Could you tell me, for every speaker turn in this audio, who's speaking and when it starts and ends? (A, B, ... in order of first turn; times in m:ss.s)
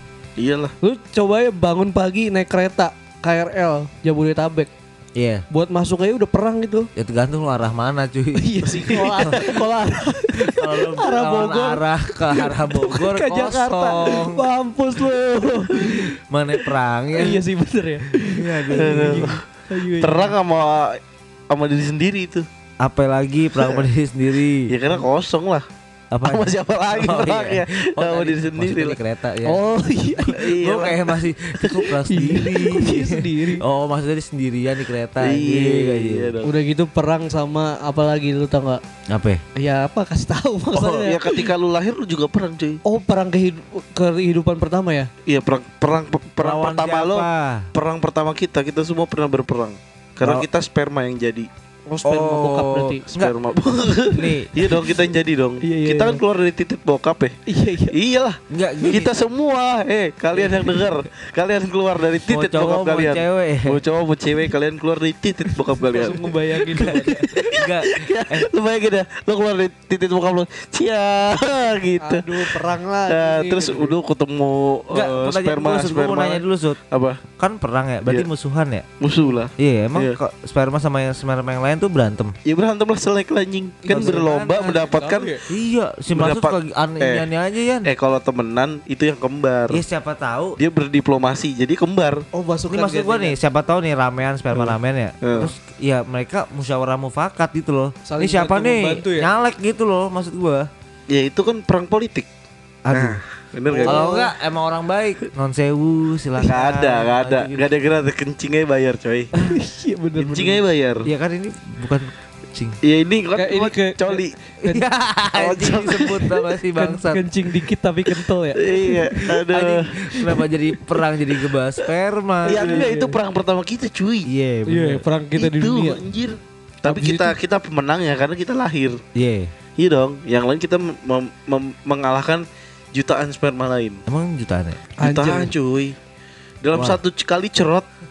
0:00.4-0:00.7 A
0:00.8-0:04.7 B
0:05.2-0:05.4 C
0:05.5-0:06.9 B
0:07.0-0:09.6 C
0:08.4-0:16.1 B
0:10.3-0:14.4 C
0:15.8-0:17.4 C
0:17.2-0:20.4 B
0:18.3-0:19.3 C
0:18.8-0:19.4 A
0:20.0-0:21.0 A
0:21.5-0:22.5 A
0:22.8-0:24.7 C
0:23.6-0:23.9 A
0:24.7-0:25.6 A
0:26.1-0:29.6 C
0:26.2-0:29.0 A
0:29.4-0:30.4 B
0:30.3-0:36.3 C
0:30.3-0:31.2 A
0:32.1-0:33.6 B
0:35.2-0:36.5 A
0:36.4-0:38.8 B
0:39.1-0:39.4 C
0:39.6-0:41.5 B
0:40.7-0:42.8 A
0:42.8-0:45.1 B
0:45.3-0:51.5 A
0:46.4-0:47.7 C
0:50.2-0:50.5 C
0:51.9-0:53.0 B
0:52.1-0:53.3 C
0:53.1-0:57.4 A
0:54.1-0:54.5 C
0:55.6-0:56.2 B
0:57.5-0:58.0 B
0:57.9-1:06.3 A
0:58.5-0:59.1 C
1:00.3-1:00.8 B
1:02.3-1:03.8 C
1:05.9-1:07.2 B
1:06.8-1:08.5 C
1:07.3-1:17.2 A
1:12.0-1:14.0 B
1:14.9-1:16.8 C
1:17.4-1:18.9 C
1:19.0-1:20.2 A
1:19.6-1:22.3 C
1:22.4-1:25.4 A
1:23.8-1:25.4 B
1:23.9-1:24.7 C
1:25.5-1:27.9 C
1:26.1-1:27.3 A
1:27.8-1:29.8 A
1:29.7-1:30.6 C
1:30.6-1:32.2 A
1:32.3-1:33.4 B
1:32.7-1:40.7 C
1:35.2-1:35.5 A
1:38.1-1:39.3 B
1:41.1-1:42.3 A
1:42.8-1:43.2 C
1:42.9-1:44.2 A
1:43.7-1:44.3 B
1:43.8-1:47.7 C
1:46.4-1:49.3 A
1:49.4-1:50.6 B
1:50.2-1:51.1 A
1:51.0-1:52.8 C
1:52.8-1:54.4 A
1:53.4-1:54.8 B
1:54.6-1:57.2 C
1:55.3-1:56.3 A
1:56.8-1:59.4 B
1:58.6-2:00.0 A
1:59.5-2:02.8 C
2:02.4-2:04.3 A
2:02.5-2:03.2 B
2:04.3-2:05.0 C
2:04.7-2:06.0 B
2:05.4-2:09.0 A
2:06.8-2:07.4 B
2:09.2-2:09.5 C
2:09.8-2:14.0 A
2:14.1-2:14.8 C
2:15.0-2:15.5 B
2:15.0-2:16.0 A
2:16.6-2:17.9 A
2:16.7-2:17.0 C